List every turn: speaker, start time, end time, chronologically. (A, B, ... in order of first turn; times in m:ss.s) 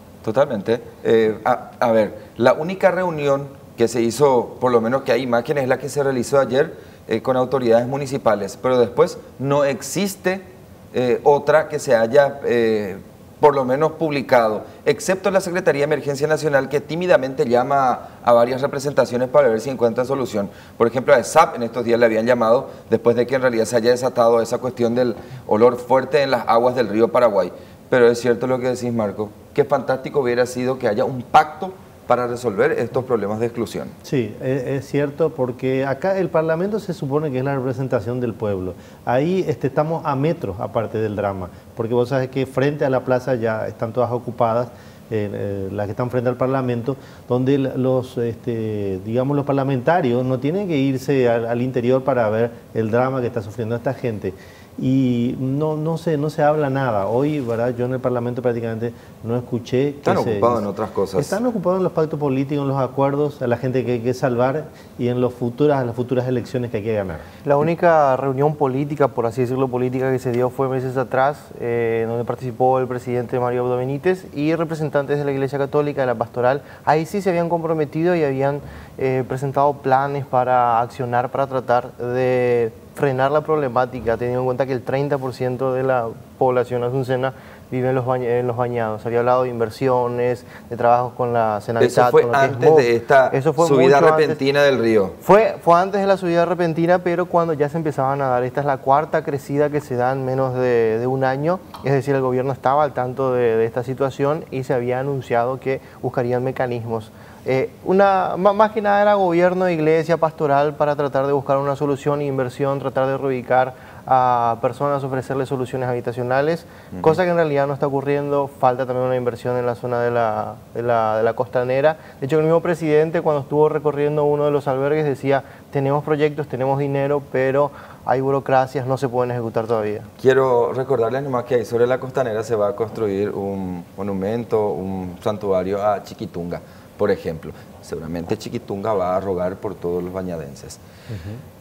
0:00.2-0:33.9 A
0:34.0-1:07.2 B
1:00.0-1:01.4 A
1:07.4-1:34.4 C
1:31.8-1:35.2 A
1:35.2-2:10.1 C
2:10.2-2:20.8 A
2:21.1-2:21.4 B